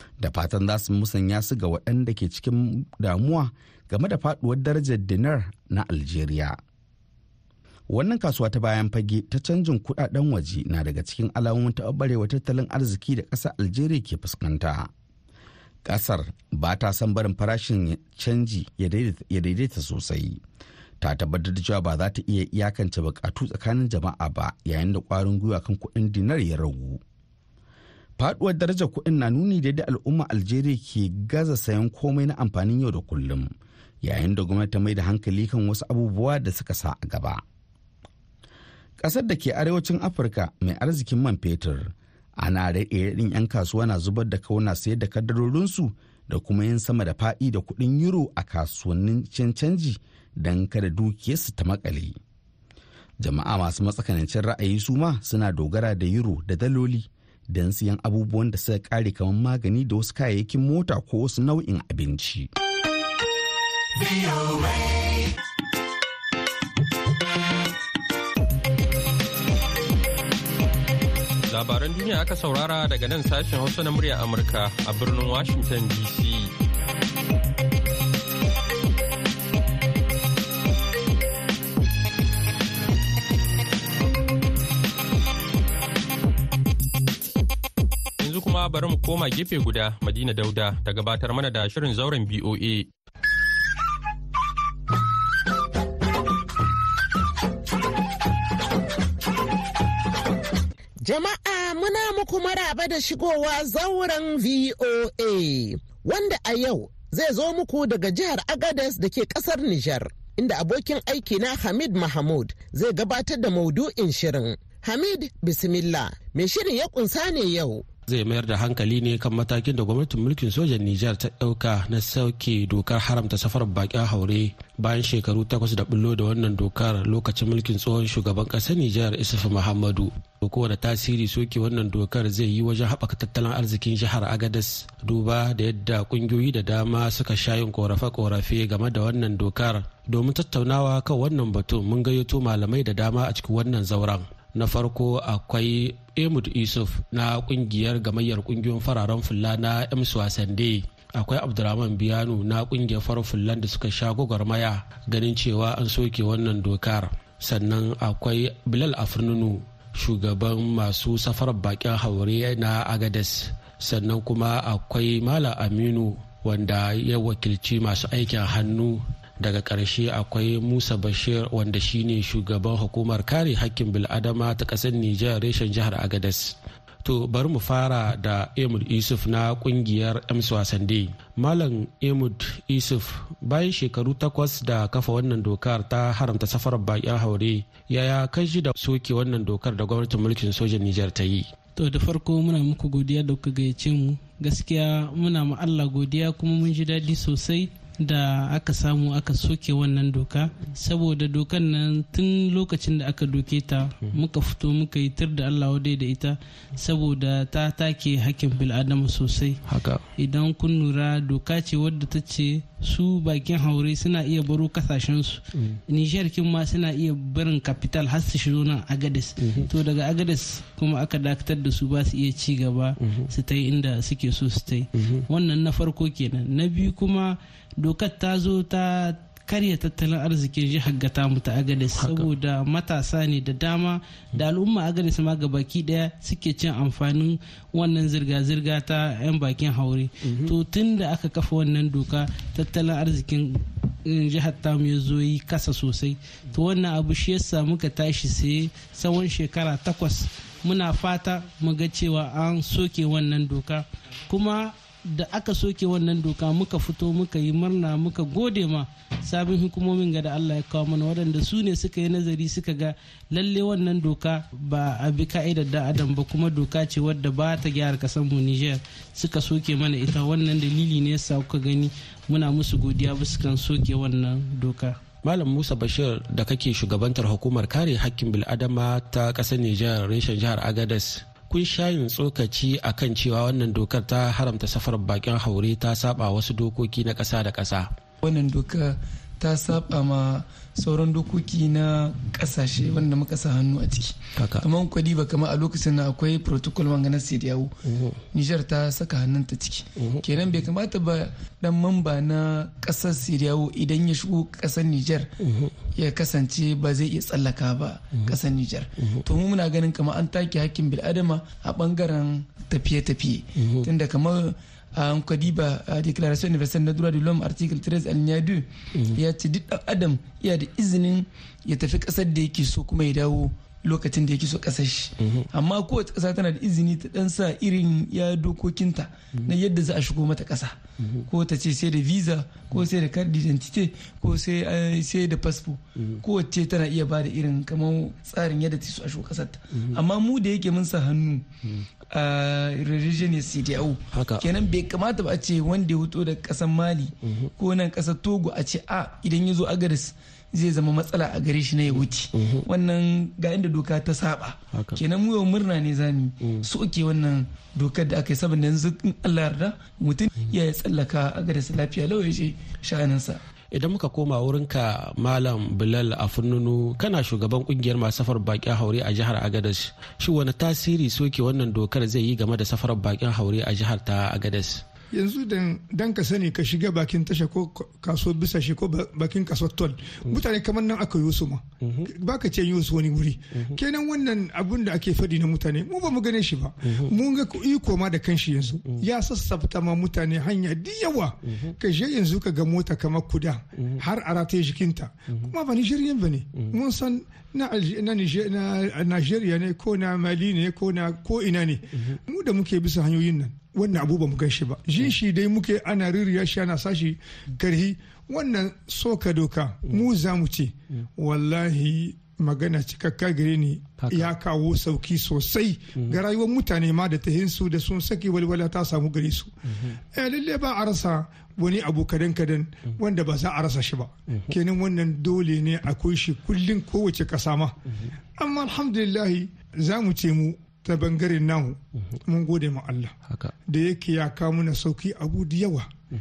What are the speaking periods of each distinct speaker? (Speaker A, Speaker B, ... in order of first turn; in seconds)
Speaker A: 0.2-6.6, 7.9-14.9, 15.8-20.4, 21.0-27.0, 28.2-33.5, 34.0-37.4, 39.0-52.2, 53.2-62.5
Speaker B: 71.5-76.5, 88.2-92.9
Speaker C: 101.0-117.8
Speaker D: 118.1-191.5, 209.7-210.1, 215.5-215.8, 219.4-219.7, 223.0-223.3, 224.9-225.2, 231.9-232.3, 240.2-240.5, 275.2-287.9, 294.4-294.6, 305.4-305.7, 313.6-313.9, 344.1-344.5, 351.9-352.6, 354.7-355.0, 363.7-374.8, 381.8-382.1, 414.0-414.3
Speaker E: 191.8-209.6, 210.2-275.0
Speaker F: 288.2-297.8, 298.3-305.3, 305.9-341.5, 342.1-363.4
Speaker G: 375.1-419.5, 420.1-427.8, 428.4-433.1, 433.7-435.9